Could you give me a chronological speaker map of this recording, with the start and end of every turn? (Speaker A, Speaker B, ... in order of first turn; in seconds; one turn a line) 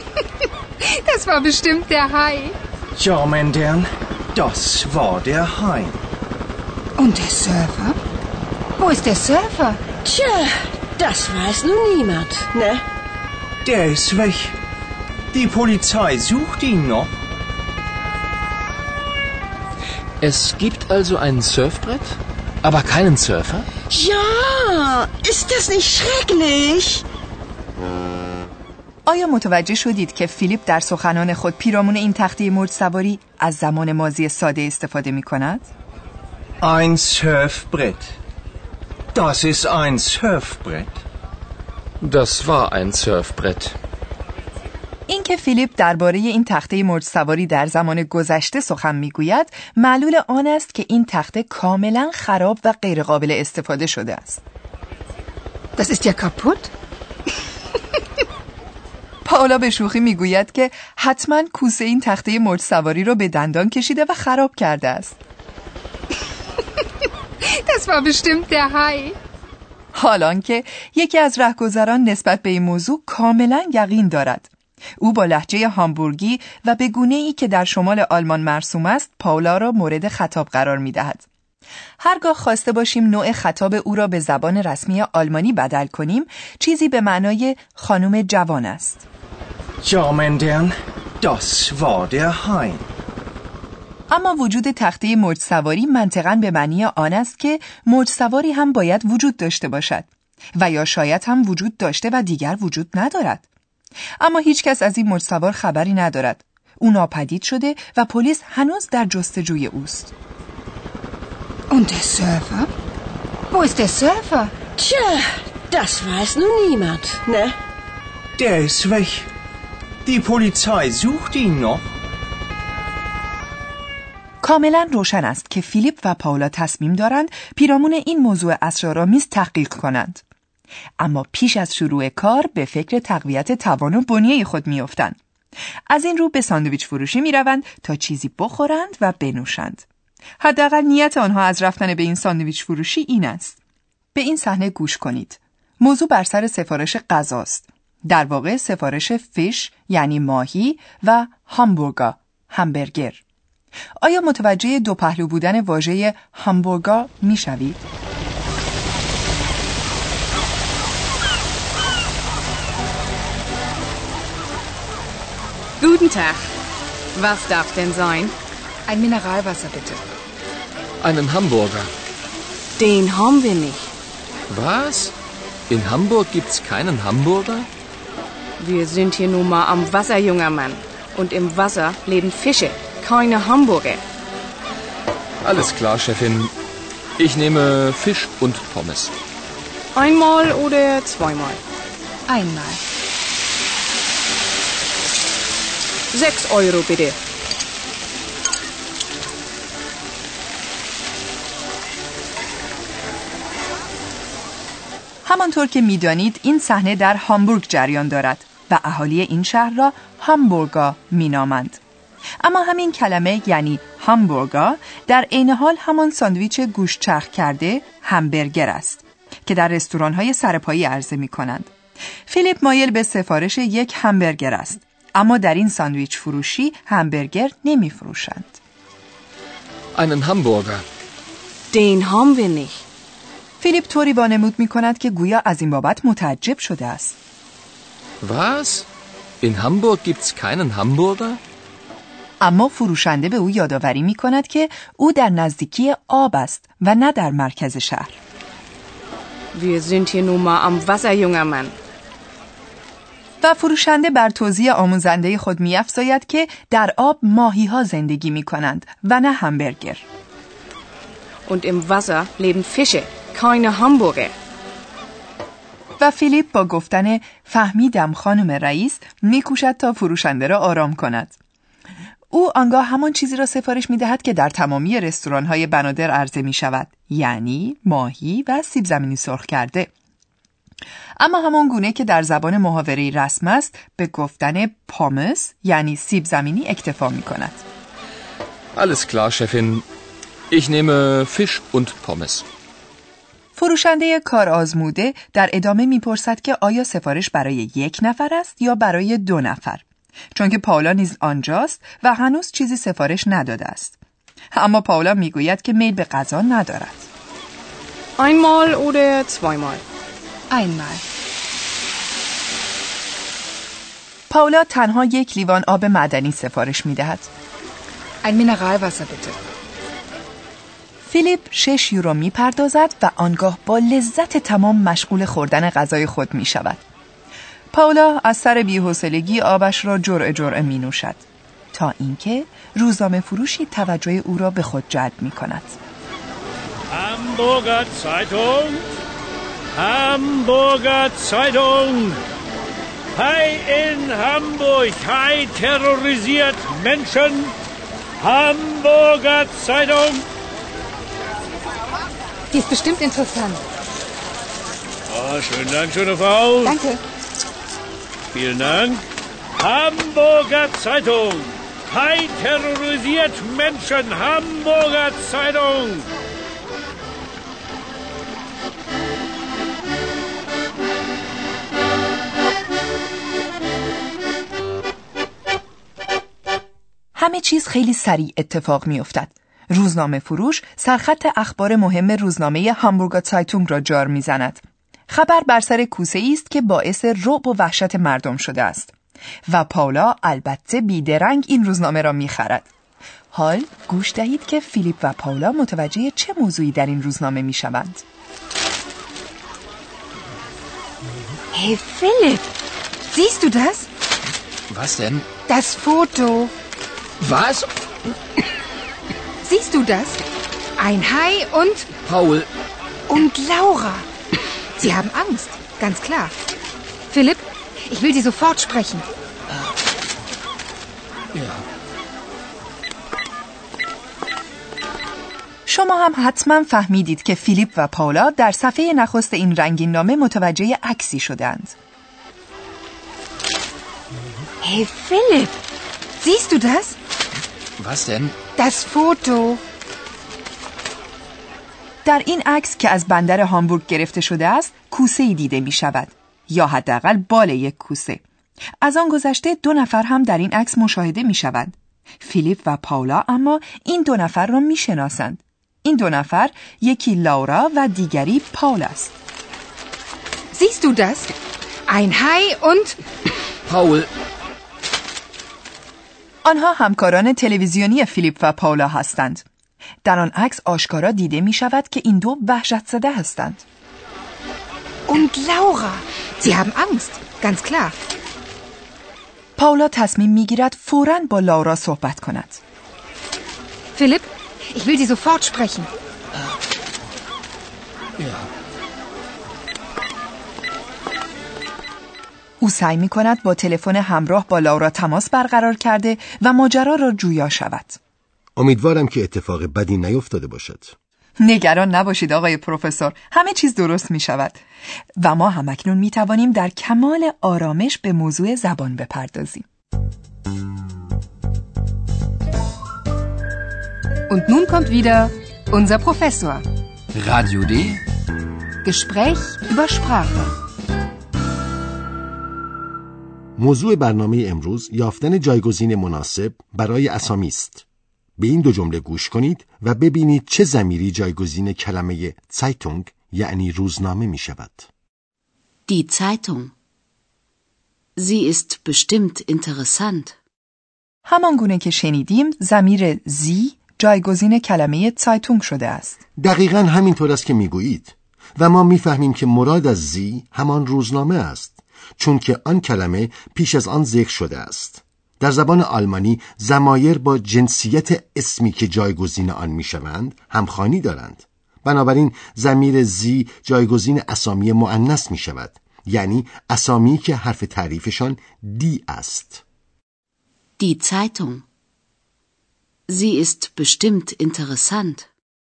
Speaker A: 0.8-2.5
Speaker B: 3.0-6.0
Speaker A: 7.0-8.0
Speaker A: 8.8-9.8
Speaker C: 10.0-12.8
Speaker B: 13.7-14.6
Speaker B: 15.3-17.1
Speaker D: 20.2-23.7
Speaker C: 23.9-27.0
Speaker E: 29.1-35.7
Speaker B: 36.6-38.1
Speaker B: 39.1-40.9
Speaker D: 42.0-43.8
Speaker E: 45.1-54.4
Speaker A: 55.8-56.7
Speaker E: 59.2-65.2
Speaker A: 67.5-69.2
Speaker E: 69.9-81.2
Speaker E: 82.0-89.0
Speaker B: 89.8-92.8
Speaker E: 94.1-103.5
Speaker E: 104.2-110.1
Speaker A: 111.7-112.7
Speaker A: 113.5-114.5
Speaker C: 114.8-117.6
Speaker B: 118.4-119.3
Speaker B: 120.0-121.9
Speaker E: 124.4-130.2
Speaker E: 131.0-135.2
Speaker E: 135.9-139.9
Speaker E: 140.4-143.6
Speaker E: 144.1-153.2
Speaker E: 154.0-157.8
Speaker F: 165.8-166.5
Speaker F: 167.2-168.3
Speaker A: 168.9-170.0
Speaker D: 171.0-171.9
Speaker F: 172.8-173.9
Speaker D: 174.5-175.1
Speaker D: 175.7-177.7
Speaker F: 178.6-184.0
Speaker D: 185.4-186.5
Speaker D: 187.2-189.1
Speaker F: 190.0-191.6
Speaker A: 192.3-192.8
Speaker F: 196.1-197.2
Speaker E: 205.2-211.8
Speaker E: 212.4-221.7
Speaker E: 222.3-228.6
Speaker D: 229.9-230.8
Speaker F: 231.7-232.8
Speaker E: 233.6-237.2
Speaker D: 238.2-238.9
Speaker D: 239.4-241.4
Speaker E: 242.4-248.2
Speaker F: 249.5-251.8
Speaker E: 253.4-260.1
Speaker F: 261.5-264.3
Speaker E: 266.0-271.4
Speaker E: 272.3-279.9
Speaker E: 281.2-287.6
Speaker D: 288.7-289.9
Speaker D: 290.5-292.4
Speaker E: 293.6-304.0
Speaker E: 304.5-307.1
Speaker F: 308.2-309.8
Speaker A: 310.5-311.0
Speaker E: 314.3-317.3
Speaker A: 318.2-319.4
Speaker E: 321.1-326.8
Speaker E: 327.7-335.8
Speaker G: 336.9-338.9
Speaker G: 339.8-342.2
Speaker G: 343.2-347.5
Speaker G: 348.2-350.2
Speaker A: 352.5-353.6
Speaker G: 355.1-356.7
Speaker A: 356.6-357.0
Speaker G: 358.4-359.0
Speaker G: 359.6-366.1
Speaker E: 377.1-388.9
Speaker E: 389.5-392.7
Speaker E: 393.3-398.0
Speaker A: 401.5-402.5
Speaker A: 403.1-403.9
Speaker D: 404.7-405.3
Speaker A: 405.5-406.5
Speaker D: 407.2-407.7
Speaker A: 409.4-410.2
Speaker A: 410.8-411.9
Speaker D: 412.1-412.5
Speaker A: 413.1-414.1
Speaker A: 414.8-416.4
Speaker A: 417.1-419.1
Speaker D: 421.3-421.6
Speaker E: 425.7-431.8
Speaker A: 434.6-435.6
Speaker A: 436.2-437.0
Speaker D: 437.8-438.4
Speaker A: 438.6-439.6
Speaker E: 442.1-448.2
Speaker E: 448.8-459.1
Speaker A: 460.5-461.3
Speaker A: 461.9-462.9
Speaker D: 463.7-464.1
Speaker E: 466.4-469.4
Speaker E: 470.0-473.6
Speaker A: 475.1-477.9
Speaker E: 479.6-482.6
Speaker A: 483.9-485.9
Speaker D: 488.2-488.5
Speaker E: 492.6-498.0
Speaker H: 498.6-500.9
Speaker E: 501.4-504.6
Speaker E: 505.2-509.6
Speaker A: 514.3-516.6
Speaker D: 517.1-518.0
Speaker A: 518.8-520.5
Speaker H: 523.6-527.9
Speaker H: 528.4-534.9
Speaker I: 535.9-536.7
Speaker I: 538.2-540.4
Speaker E: 541.3-546.2
Speaker H: 546.4-569.6
Speaker I: 570.8-571.6
Speaker I: 573.1-575.3